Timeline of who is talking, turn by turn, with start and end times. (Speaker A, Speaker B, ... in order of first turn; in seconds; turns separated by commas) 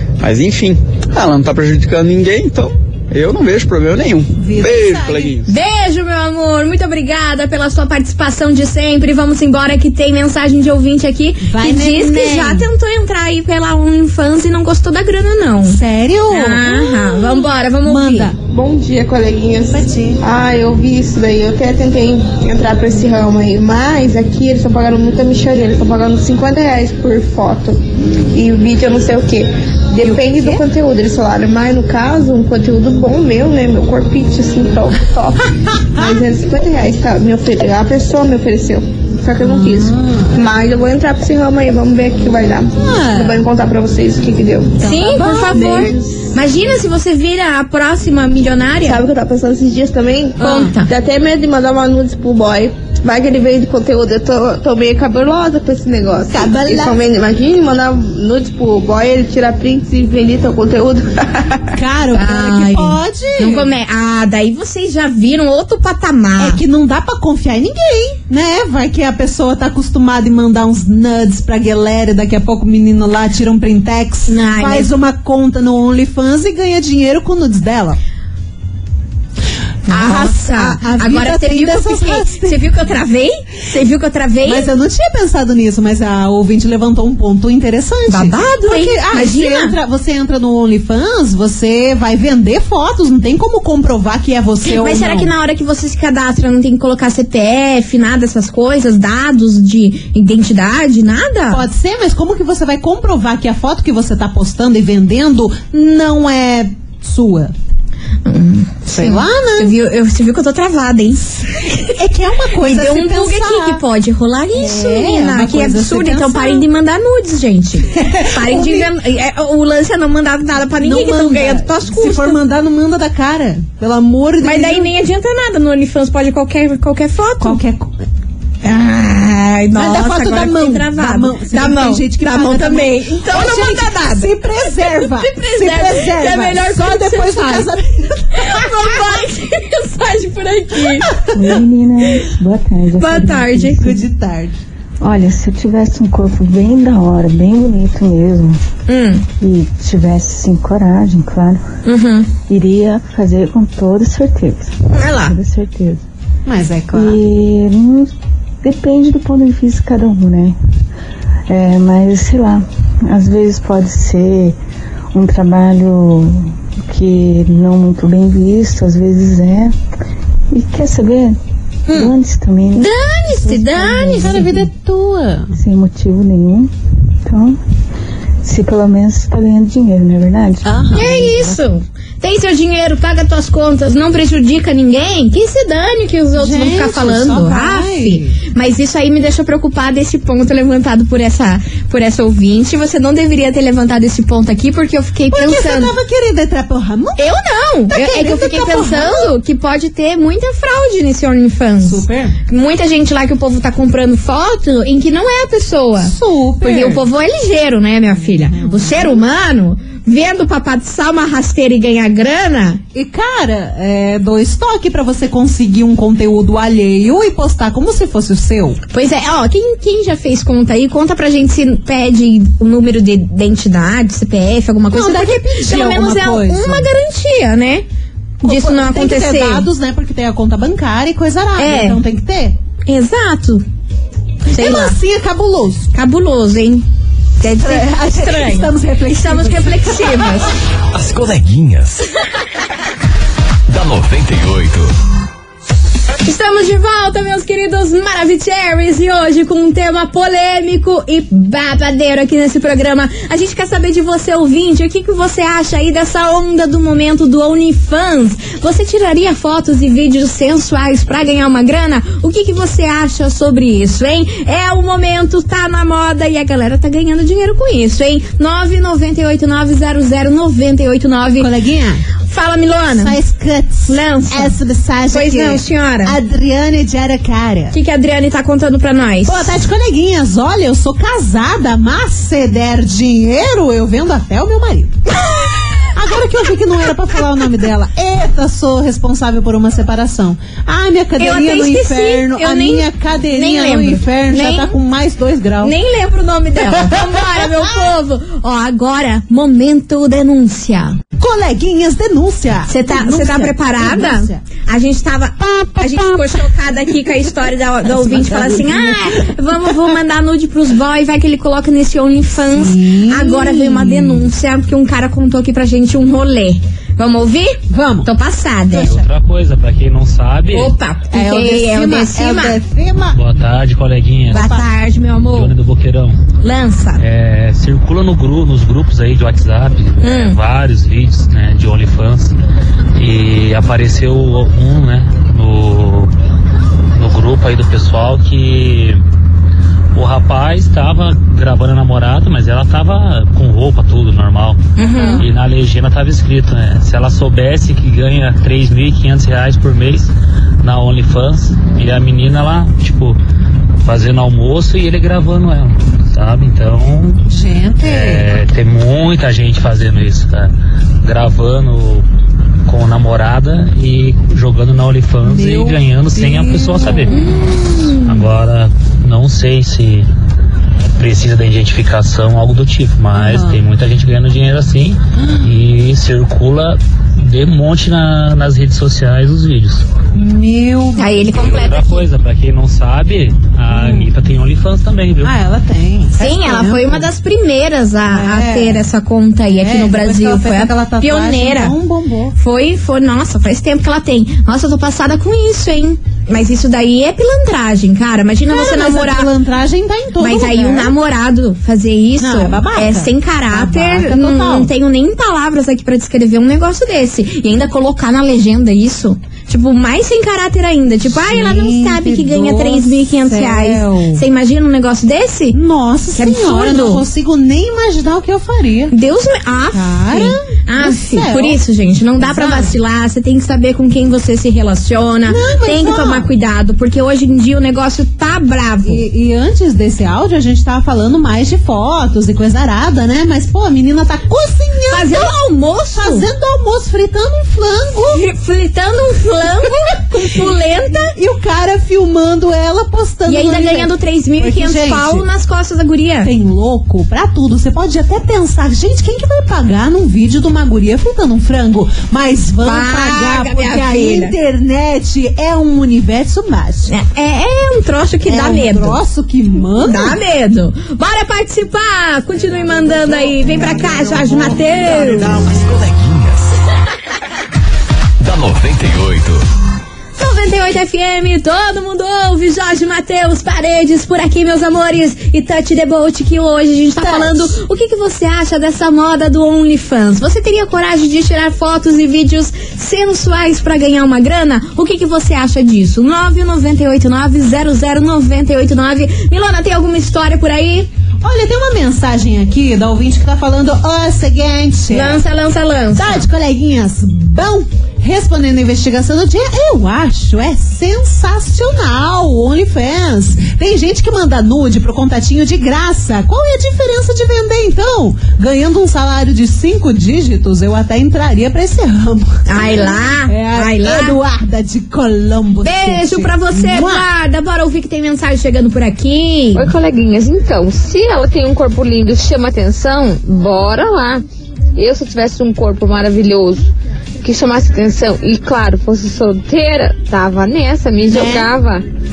Speaker A: 0.2-5.5, Speaker B: 4.4-5.3, Speaker C: 5.5-18.3, Speaker B: 11.4-12.7, Speaker B: 15.6-18.4, Speaker D: 18.4-44.9, Speaker B: 19.7-20.2, Speaker B: 30.0-30.6, Speaker B: 39.4-40.3, Speaker B: 42.8-43.4, Speaker B: 44.8-46.1, Speaker C: 44.8-49.0, Speaker D: 45.5-45.9, Speaker D: 48.8-61.6, Speaker B: 50.4-50.8, Speaker C: 50.4-50.9, Speaker B: 56.3-57.0, Speaker B: 61.7-63.7, Speaker C: 62.1-66.6, Speaker B: 66.4-78.0, Speaker C: 74.3-74.9, Speaker B: 79.8-82.6, Speaker C: 79.9-84.7, Speaker B: 84.4-95.3, Speaker C: 88.1-89.8, Speaker C: 94.6-101.6, Speaker B: 101.5-107.5, Speaker C: 108.2-111.9, Speaker B: 108.9-109.7, Speaker B: 111.9-113.8, Speaker C: 112.6-122.4, Speaker B: 114.5-116.6, Speaker B: 117.9-118.9, Speaker B: 120.8-124.9, Speaker C: 124.4-127.6, Speaker B: 127.4-128.0, Speaker C: 128.6-137.7, Speaker B: 129.8-139.0, Speaker C: 138.3-141.1, Speaker B: 140.8-141.4, Speaker E: 141.3-144.0, Speaker C: 143.0-143.9, Speaker B: 143.8-144.6, Speaker E: 145.0-148.6, Speaker C: 148.9-149.2, Speaker E: 149.4-151.6, Speaker C: 151.8-152.3, Speaker E: 152.5-156.0, Speaker C: 154.9-155.3, Speaker B: 156.4-157.2, Speaker E: 156.9-160.6, Speaker E: 161.5-164.6, Speaker E: 165.1-169.8, Speaker E: 170.5-171.4, Speaker E: 171.9-174.7, Speaker C: 172.7-174.5, Speaker B: 174.1-175.5, Speaker E: 175.5-176.7, Speaker E: 177.2-177.6, Speaker E: 178.4-181.2, Speaker B: 180.6-181.5, Speaker C: 180.9-195.9, Speaker B: 186.3-188.4, Speaker B: 195.3-197.2, Speaker C: 197.2-212.8, Speaker B: 197.9-199.3, Speaker B: 201.8-202.3, Speaker B: 206.0-207.0, Speaker B: 208.2-209.2, Speaker B: 212.9-218.8, Speaker C: 218.9-227.8, Speaker B: 224.9-226.9, Speaker B: 228.4-232.6, Speaker C: 228.4-229.7, Speaker C: 231.6-232.0, Speaker C: 232.8-233.6, Speaker C: 234.5-235.0, Speaker B: 234.5-235.9, Speaker C: 235.9-236.8, Speaker C: 237.4-240.5, Speaker B: 237.4-240.4, Speaker F: 240.9-242.1, Speaker F: 243.7-244.9, Speaker C: 246.2-271.5, Speaker B: 271.4-272.0, Speaker C: 272.3-273.1, Speaker B: 272.9-277.8, Speaker C: 273.9-274.6, Speaker C: 275.1-276.1, Speaker C: 277.7-279.5, Speaker B: 279.2-285.0, Speaker B: 285.9-295.7, Speaker C: 291.2-294.8, Speaker C: 295.6-301.0, Speaker B: 296.6-297.5, Speaker B: 301.2-304.4, Speaker C: 302.7-318.9, Speaker B: 305.5-306.5, Speaker B: 307.8-309.3, Speaker B: 312.5-314.3, Speaker B: 317.7-318.1, Speaker B: 318.7-319.1, Speaker G: 318.8-320.7, Speaker C: 320.5-322.6, Speaker B: 321.1-323.2, Speaker G: 323.1-324.5, Speaker C: 324.3-325.5, Speaker B: 324.3-324.6, Speaker G: 325.3-326.2, Speaker C: 326.4-327.0, Speaker G: 327.0-332.4, Speaker C: 330.0-330.4, Speaker G: 332.9-336.1, Speaker G: 336.9-339.0, Speaker G: 339.9-344.6, Speaker C: 344.8-345.2, Speaker B: 344.9-345.2, Speaker G: 345.2-353.2, Speaker G: 353.8-357.2, Speaker B: 357.3-358.3, Speaker G: 357.8-362.1, Speaker G: 362.6-367.2, Speaker B: 365.2-367.2, Speaker C: 367.1-368.2, Speaker G: 368.0-370.1, Speaker G: 371.0-379.9, Speaker B: 373.1-373.6, Speaker B: 375.1-375.5, Speaker B: 380.1-381.5, Speaker C: 380.9-382.0, Speaker G: 381.3-385.3, Speaker B: 383.7-384.1, Speaker B: 385.2-387.1, Speaker C: 386.2-391.7, Speaker B: 388.1-388.9, Speaker B: 389.5-392.4, Speaker C: 392.4-399.3, Speaker B: 398.5-400.9, Speaker C: 400.2-415.6, Speaker B: 402.2-404.7, Speaker B: 411.1-414.2, Speaker B: 415.5-418.9, Speaker C: 416.1-417.0, Speaker C: 418.9-429.0, Speaker B: 419.7-421.6, Speaker B: 422.2-422.7, Speaker B: 425.2-426.3, Speaker B: 428.8-435.3, Speaker C: 434.9-436.3, Speaker B: 435.9-438.2, Speaker C: 438.1-441.1, Speaker B: 441.1-445.2, Speaker C: 443.3-446.3, Speaker B: 446.2-456.9, Speaker C: 452.6-454.3, Speaker C: 456.9-459.0, Speaker B: 458.2-460.2, Speaker C: 459.8-465.4, Speaker B: 462.6-465.4, Speaker F: 465.1-466.6, Speaker F: 468.2-469.4, Speaker C: 470.2-490.9, Speaker B: 477.0-477.5, Speaker B: 491.2-495.2, Speaker C: 494.9-496.3, Speaker B: 495.9-517.0, Speaker C: 512.5-514.2, Speaker C: 515.6-519.7, Speaker H: 519.5-524.2, Speaker H: 524.8-531.9, Speaker B: 531.0-531.5